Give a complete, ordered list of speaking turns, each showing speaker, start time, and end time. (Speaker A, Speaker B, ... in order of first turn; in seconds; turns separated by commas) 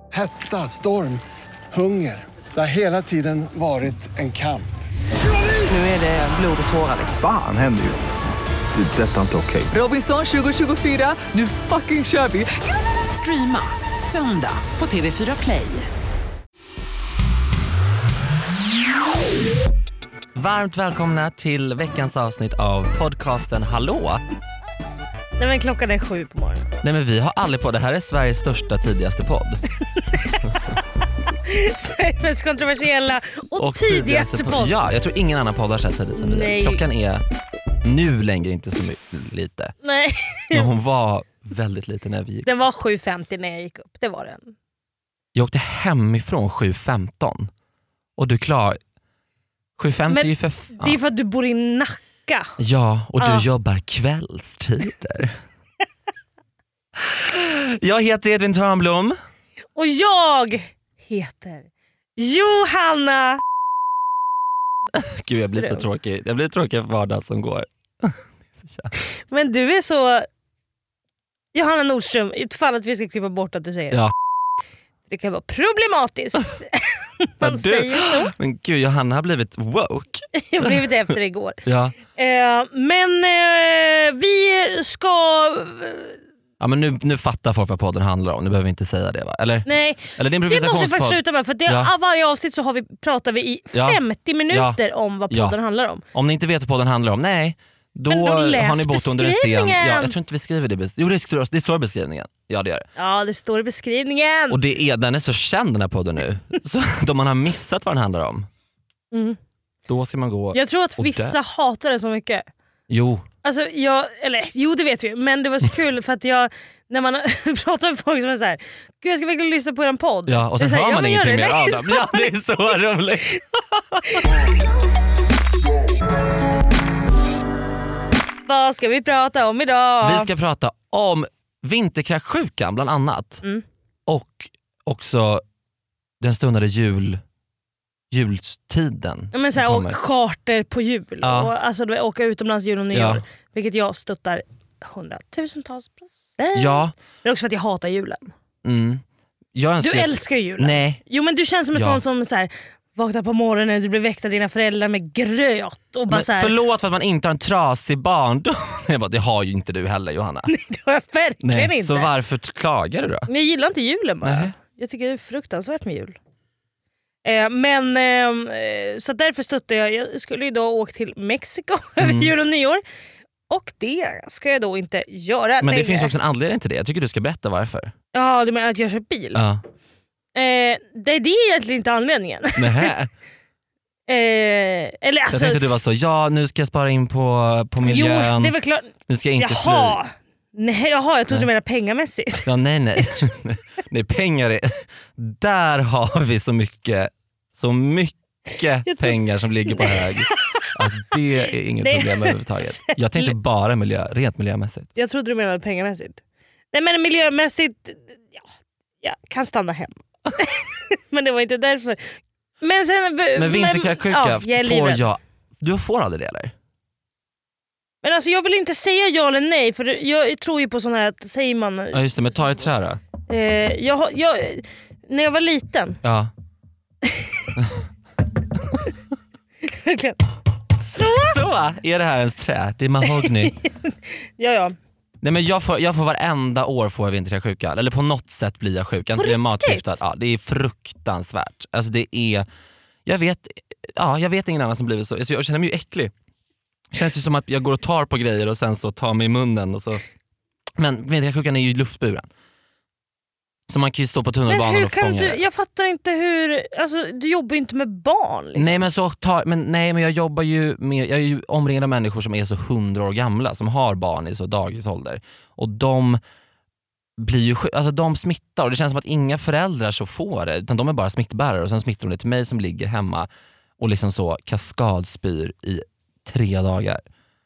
Speaker A: 0.1-4.7, Speaker B: 5.7-7.1, Speaker C: 7.1-8.1, Speaker C: 8.7-9.7, Speaker B: 9.7-12.5, Speaker B: 13.0-15.9, Speaker D: 20.3-24.2, Speaker E: 25.4-26.7, Speaker D: 26.8-29.6, Speaker E: 30.1-30.4, Speaker E: 31.4-34.8, Speaker D: 33.6-37.2, Speaker E: 36.1-36.8, Speaker D: 37.8-39.7, Speaker E: 39.8-40.7, Speaker D: 40.5-42.5, Speaker E: 42.4-44.5, Speaker D: 45.3-47.5, Speaker D: 48.2-48.8, Speaker D: 49.8-51.0, Speaker E: 50.1-52.5, Speaker D: 52.6-55.4, Speaker E: 53.2-53.5, Speaker D: 57.0-59.2, Speaker E: 59.8-63.4, Speaker D: 64.9-68.9, Speaker E: 69.3-70.3, Speaker E: 71.5-74.0, Speaker E: 75.1-78.3, Speaker D: 77.4-80.9, Speaker E: 80.3-86.2, Speaker D: 81.6-82.0, Speaker D: 86.6-91.9, Speaker E: 89.7-96.0, Speaker D: 93.7-95.6, Speaker D: 96.1-102.9, Speaker E: 98.1-100.1, Speaker E: 103.0-104.6, Speaker D: 104.5-108.5, Speaker E: 109.1-109.4, Speaker D: 109.9-111.4, Speaker E: 110.5-112.5, Speaker D: 112.9-113.2, Speaker E: 113.4-122.4, Speaker D: 120.2-124.2, Speaker E: 128.4-130.3, Speaker D: 130.0-133.4, Speaker D: 134.1-135.4, Speaker D: 136.2-137.2, Speaker D: 138.1-140.0, Speaker E: 139.3-148.3, Speaker D: 141.2-141.5, Speaker D: 142.9-143.2, Speaker D: 146.5-146.9, Speaker D: 148.6-151.0, Speaker E: 149.8-156.5, Speaker D: 151.7-152.0, Speaker D: 156.1-160.5, Speaker E: 160.5-162.1, Speaker D: 161.4-163.3, Speaker E: 163.3-166.2, Speaker D: 164.2-164.5, Speaker E: 167.2-172.8, Speaker D: 172.0-172.3, Speaker E: 173.5-176.1, Speaker D: 175.6-177.9, Speaker E: 178.1-179.4, Speaker D: 179.3-179.6, Speaker E: 180.3-182.9, Speaker D: 182.6-183.1, Speaker E: 184.1-185.6, Speaker D: 185.3-190.0, Speaker E: 187.8-192.5, Speaker D: 192.4-204.9, Speaker E: 198.8-200.9, Speaker E: 201.8-203.3, Speaker E: 204.9-206.2, Speaker E: 206.7-208.4, Speaker E: 209.0-215.1, Speaker D: 213.3-216.5, Speaker E: 218.0-222.1, Speaker D: 221.9-223.0, Speaker E: 223.3-226.0, Speaker D: 226.0-226.3, Speaker D: 227.6-227.8, Speaker E: 229.7-230.2, Speaker E: 230.8-231.4, Speaker D: 230.9-233.6, Speaker E: 233.0-234.8, Speaker D: 235.2-242.5, Speaker E: 239.1-240.0, Speaker D: 243.1-246.1, Speaker D: 246.9-250.0, Speaker D: 250.8-252.3, Speaker D: 253.7-255.4, Speaker E: 254.5-258.9, Speaker D: 258.6-266.2, Speaker D: 267.2-277.0